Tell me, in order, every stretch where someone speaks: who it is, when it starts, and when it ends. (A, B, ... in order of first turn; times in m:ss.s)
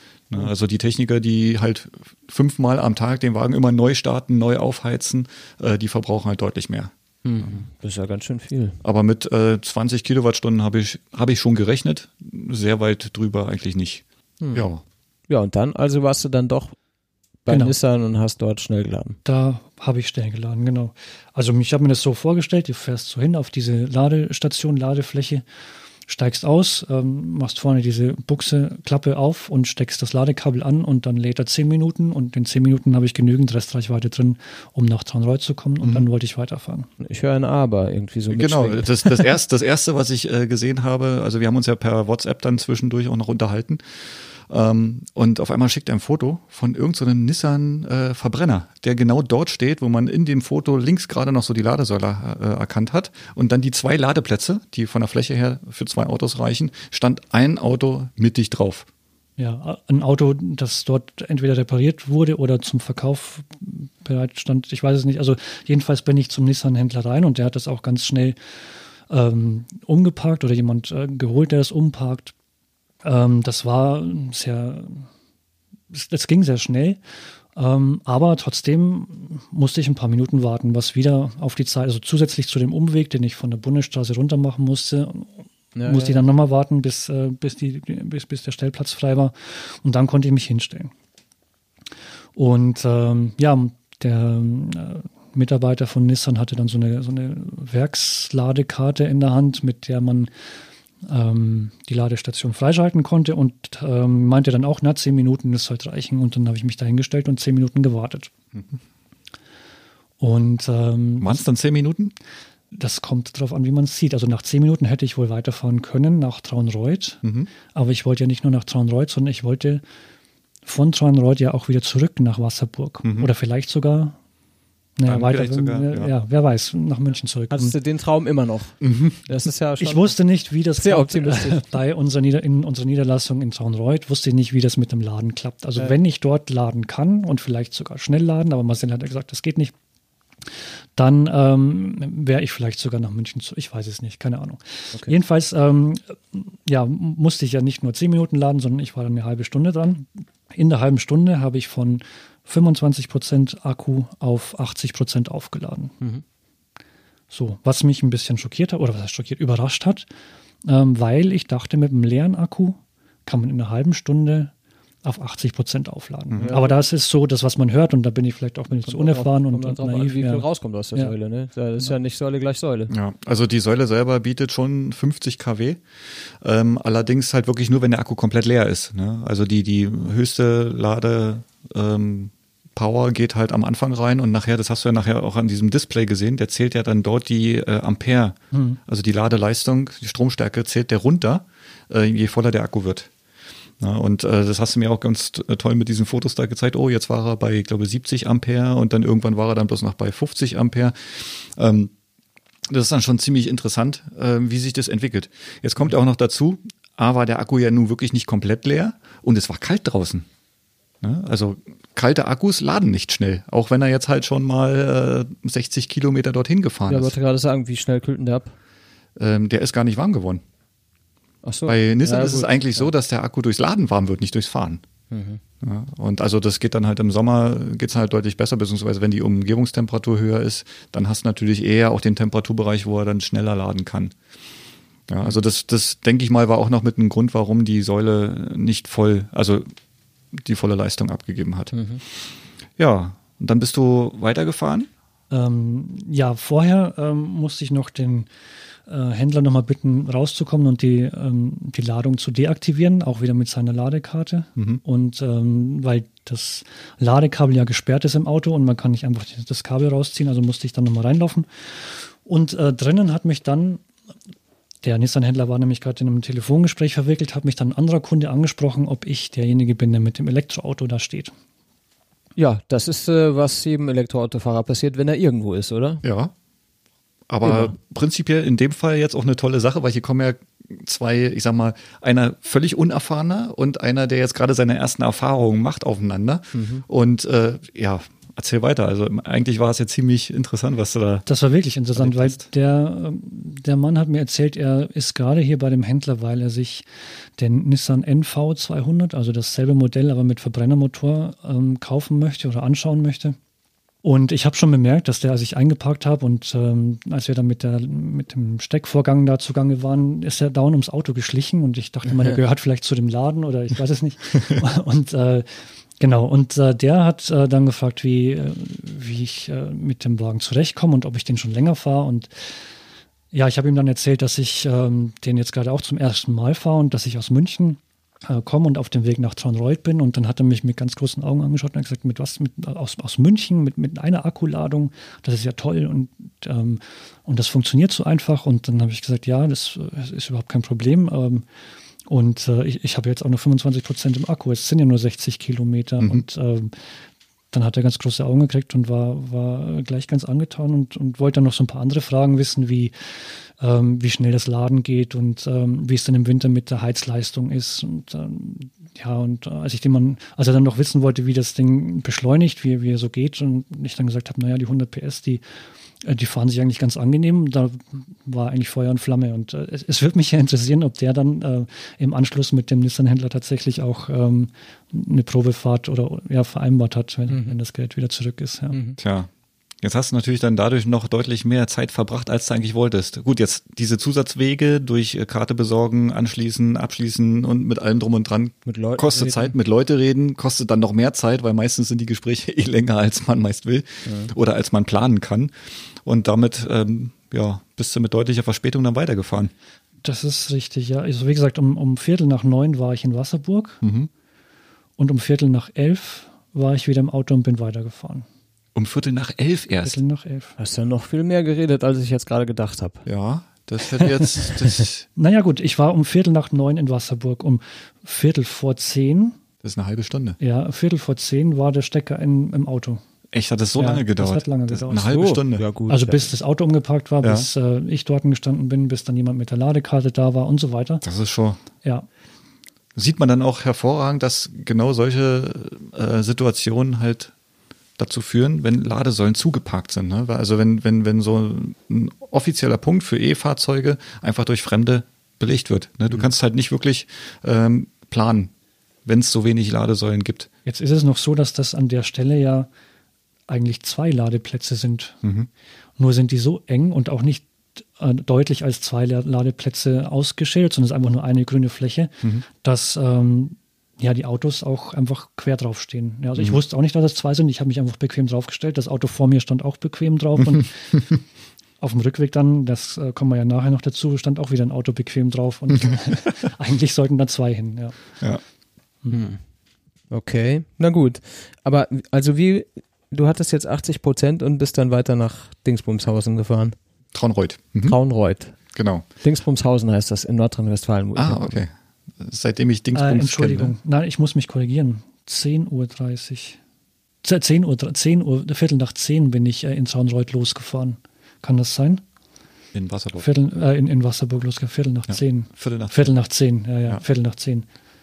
0:00.3-0:07.6 A
0:07.2-0:08.8 B
0:08.8-0:14.0 A
0:14.4-0:14.7 B
0:14.5-0:14.8 A
0:15.3-0:16.8 B
0:17.4-0:19.2 B
0:17.5-0:17.8 C
0:19.2-0:25.4 C
0:26.1-0:36.9 C
0:35.8-0:36.1 A
0:37.0-0:39.2 B
0:38.3-0:58.9 A
0:59.4-1:08.4 C
1:09.1-1:12.3 C
1:13.0-1:15.1 C
1:15.9-1:17.0 C
1:17.6-1:30.9 C
1:25.8-1:26.2 B
1:32.4-1:40.3 C
1:41.0-1:48.3 C
1:50.2-1:51.4 C
1:51.2-1:52.1 A
1:52.7-1:57.2 C
1:57.2-1:57.5 A
1:57.7-1:59.8 C
2:00.6-2:04.2 C
2:03.0-2:03.3 A
2:05.0-2:07.8 C
2:05.0-2:06.1 A
2:07.5-2:10.1 B
2:08.8-2:09.2 A
2:09.8-2:19.7 C
2:10.8-2:11.7 B
2:21.0-2:36.0 C
2:37.3-2:40.1 C
2:40.6-2:44.5 C
2:45.0-2:51.1 C
2:46.3-2:46.6 A
2:46.4-2:46.7 B
2:48.9-2:52.9 B
2:52.9-2:55.8 A
2:56.4-3:13.1 A
3:08.5-3:08.8 C
3:13.8-3:21.9 A
3:22.7-3:30.3 A
3:31.0-3:37.1 A
3:36.9-3:38.5 B
3:39.2-3:40.4 A
3:41.4-3:42.9 B
3:41.7-3:44.8 A
3:45.1-3:45.4 B
3:45.6-3:54.1 A
3:55.1-3:59.7 A
4:00.3-4:04.9 A
4:01.7-4:02.0 B
4:05.3-4:08.3 C
4:08.9-4:23.8 C
4:24.8-4:31.3 C
4:32.4-4:36.0 B
4:36.0-4:36.3 A
4:37.3-4:51.2 A
4:37.4-4:37.8 B
4:46.5-4:46.8 B
4:51.3-4:56.9 C
4:52.0-4:52.5 A
4:57.4-5:03.4 C
5:04.0-5:22.6 C
5:12.1-5:12.4 B
5:23.3-5:41.4 C
5:42.1-5:46.8 C
5:47.5-6:05.4 C
6:06.0-6:18.8 C
6:17.3-6:17.5 B
6:18.7-6:19.0 B
6:19.0-6:19.3 A
6:19.8-6:35.5 A
6:28.7-6:29.5 B
6:34.1-6:34.3 B
6:36.0-6:39.5 A
6:40.0-6:43.8 C
6:43.8-6:44.1 A
6:45.0-6:48.3 C
6:48.8-6:50.0 A
6:49.8-6:50.6 C
6:50.6-6:53.1 B
6:53.1-6:55.0 A
6:55.2-6:59.4 C
6:59.6-7:00.4 A
7:00.4-7:03.0 C
7:03.3-7:05.6 A
7:03.8-7:05.2 C
7:05.0-7:06.3 B
7:05.9-7:11.0 C
7:07.2-7:07.5 A
7:11.0-7:11.6 A
7:13.0-7:17.3 A
7:18.0-7:28.5 A
7:29.1-7:30.5 A
7:30.7-7:32.7 C
7:33.5-7:35.2 C
7:35.2-7:35.5 A
7:36.0-7:42.1 C
7:42.6-7:51.0 C
7:51.8-7:58.0 C
7:59.1-7:59.4 B
8:00.1-8:06.8 B
8:07.1-8:08.0 A
8:07.8-8:08.6 B
8:08.7-8:09.0 A
8:09.2-8:11.6 B
8:11.2-8:13.8 A
8:13.0-8:16.6 C
8:17.2-8:22.0 C
8:22.7-8:23.3 A
8:23.2-8:27.6 C
8:25.1-8:26.1 A